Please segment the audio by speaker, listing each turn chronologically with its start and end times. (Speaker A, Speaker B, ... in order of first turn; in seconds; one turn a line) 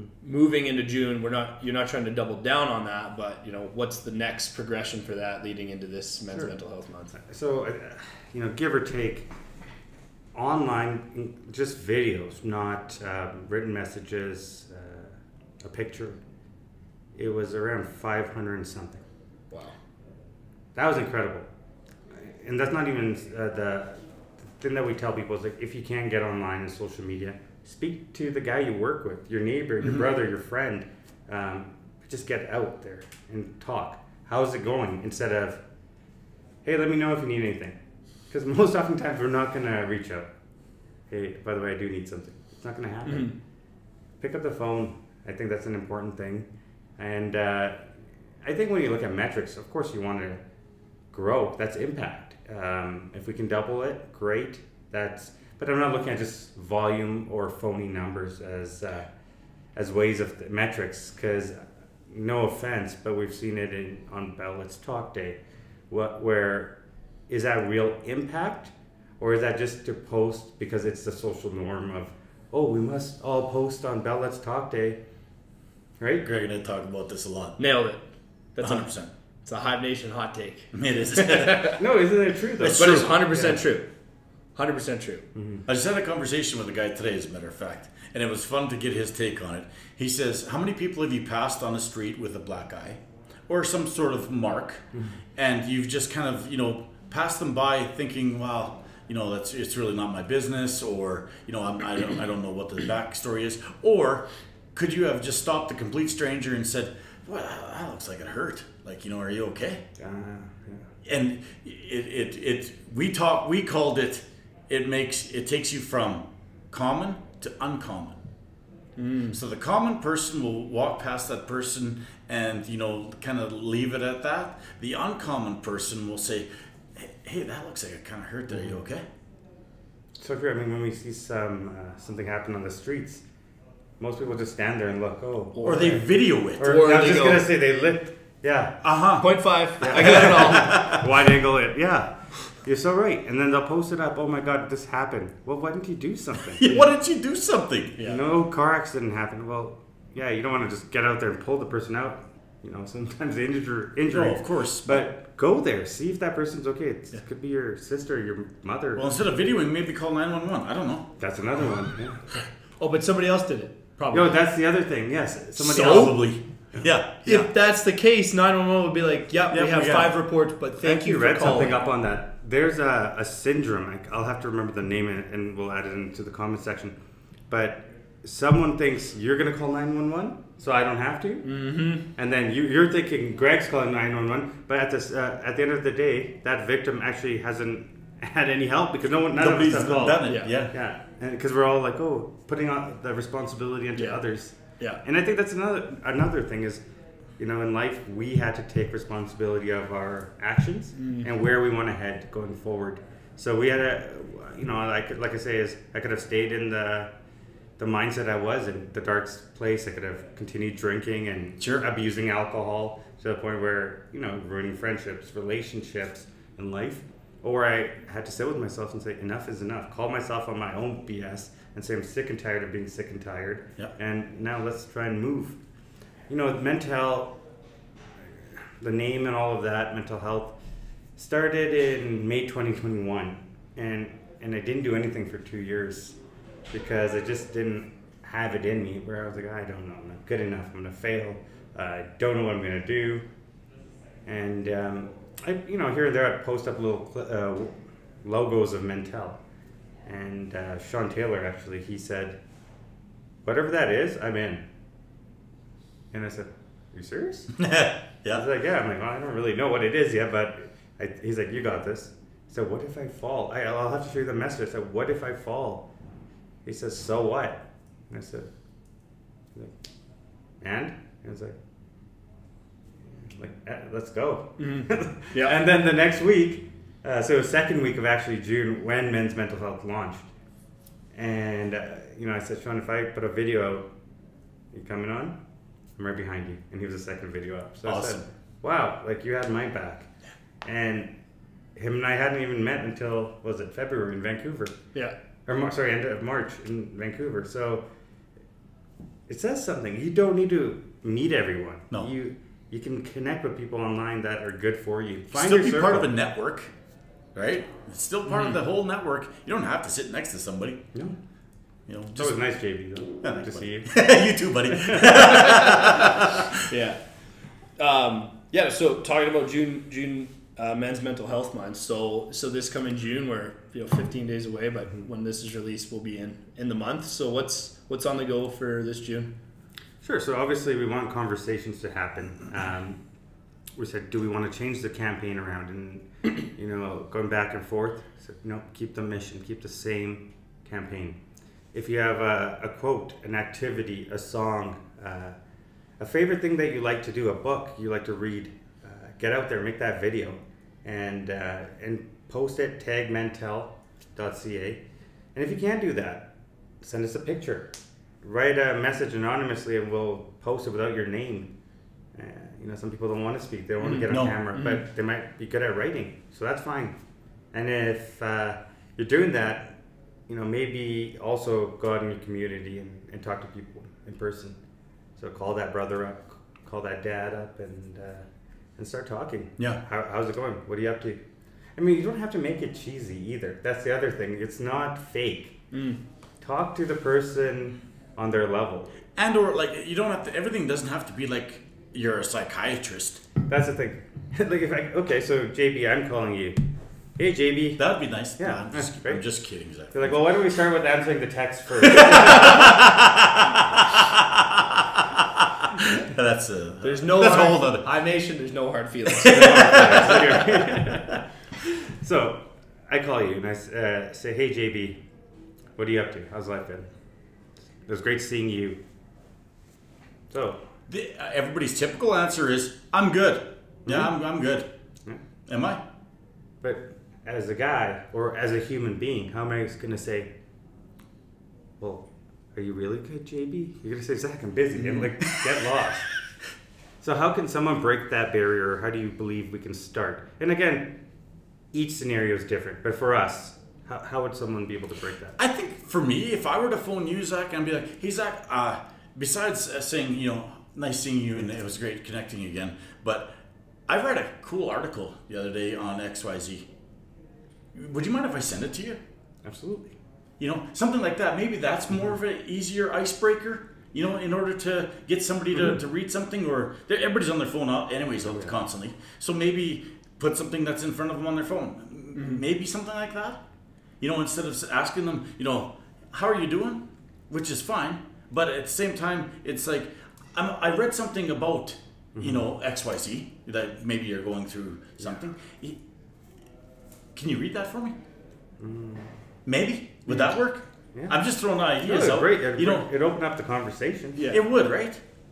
Speaker A: 0.2-7.2
Speaker B: 7.2-9.3
Speaker B: 10.3-16.2
Speaker B: 17.1-19.0
Speaker A: 19.5-19.8
Speaker B: 20.8-21.5
Speaker B: 22.1-35.6
Speaker B: 36.6-40.3
Speaker B: 41.1-43.4
Speaker A: 43.1-43.4
Speaker B: 44.2-47.9
Speaker B: 48.4-50.4
Speaker B: 51.1-59.1
Speaker B: 59.8-66.8
Speaker B: 67.3-75.0
Speaker B: 76.0-76.4
Speaker C: 76.2-77.6
Speaker A: 77.6-78.0
Speaker C: 78.6-79.1
Speaker A: 78.6-78.9
Speaker A: 79.5-81.8
Speaker C: 80.7-81.7
Speaker B: 81.8-83.6
Speaker C: 82.6-83.1
Speaker A: 82.6-83.9
Speaker A: 84.5-85.3
Speaker B: 85.3-85.7
Speaker C: 85.7-109.8
Speaker B: 110.0-110.9
Speaker C: 111.0-118.2
Speaker A: 119.0-119.4
Speaker C: 119.3-129.0
Speaker B: 130.2-133.2
Speaker B: 134.0-138.8
Speaker A: 135.6-135.9
Speaker C: 135.6-136.7
Speaker A: 136.6-137.5
Speaker C: 138.8-141.0
Speaker A: 139.2-140.9
Speaker B: 139.8-146.6
Speaker C: 146.5-148.0
Speaker A: 148.0-148.2
Speaker B: 148.0-159.0
Speaker C: 154.1-155.1
Speaker C: 159.0-161.1
Speaker B: 161.2-162.3
Speaker A: 162.8-164.3
Speaker B: 164.1-166.2
Speaker C: 165.6-167.5
Speaker A: 165.7-166.2
Speaker A: 167.2-171.8
Speaker C: 169.5-170.2
Speaker B: 170.8-177.0
Speaker B: 177.5-181.5
Speaker A: 181.4-182.1
Speaker B: 182.2-196.8
Speaker C: 189.4-190.8
Speaker A: 190.3-190.5
Speaker B: 197.4-207.1
Speaker A: 201.0-201.3
Speaker B: 207.8-225.6
Speaker B: 226.3-227.4
Speaker B: 228.3-230.6
Speaker B: 231.2-236.2
Speaker B: 236.7-243.3
Speaker B: 244.2-249.4
Speaker B: 250.1-252.4
Speaker B: 253.4-254.7
Speaker B: 256.1-257.6
Speaker C: 257.6-258.4
Speaker B: 258.3-265.9
Speaker B: 266.6-268.5
Speaker B: 270.6-271.6
Speaker B: 273.1-280.3
Speaker A: 274.6-275.6
Speaker B: 281.1-283.9
Speaker B: 284.7-285.4
Speaker B: 286.0-290.1
Speaker C: 287.9-288.3
Speaker B: 290.6-291.1
Speaker B: 291.8-294.8
Speaker B: 295.5-297.9
Speaker B: 299.3-306.1
Speaker C: 305.3-306.7
Speaker C: 307.4-310.8
Speaker C: 311.9-312.4
Speaker B: 312.1-314.0
Speaker C: 313.2-316.5
Speaker B: 314.7-315.1
Speaker A: 315.1-316.1
Speaker A: 316.6-317.0
Speaker A: 317.8-329.3
Speaker B: 330.0-333.0
Speaker B: 333.7-341.2
Speaker B: 341.7-345.4
Speaker B: 346.0-354.8
Speaker B: 355.4-361.5
Speaker B: 362.1-367.0
Speaker A: 363.8-364.8
Speaker C: 364.1-364.4
Speaker B: 367.5-374.6
Speaker B: 375.2-381.2
Speaker B: 381.8-385.6
Speaker A: 385.7-386.0
Speaker B: 386.4-389.0
Speaker C: 389.2-393.2
Speaker B: 393.5-396.6
Speaker B: 397.2-397.8
Speaker C: 397.8-400.1
Speaker B: 398.4-399.2
Speaker B: 399.9-402.8
Speaker C: 401.9-407.9
Speaker A: 406.8-410.4
Speaker C: 409.2-411.2
Speaker B: 409.2-415.0
Speaker B: 415.8-416.9
Speaker B: 417.9-418.8
Speaker B: 420.3-420.6
Speaker C: 420.9-424.7
Speaker B: 423.9-424.1
Speaker C: 425.5-425.8
Speaker B: 426.6-430.3
Speaker B: 431.8-436.1
Speaker C: 434.8-435.5
Speaker B: 437.0-441.0
Speaker B: 441.7-445.4
Speaker C: 445.4-453.3
Speaker C: 453.9-456.7
Speaker C: 457.7-459.0
Speaker B: 459.4-460.0
Speaker C: 460.4-473.4
Speaker B: 468.3-468.6
Speaker A: 472.1-472.4
Speaker C: 474.0-485.8
Speaker B: 482.1-482.5
Speaker C: 487.1-488.0
Speaker B: 488.6-489.1
Speaker C: 489.5-492.9
Speaker B: 491.8-494.3
Speaker A: 494.1-494.4
Speaker C: 494.3-495.0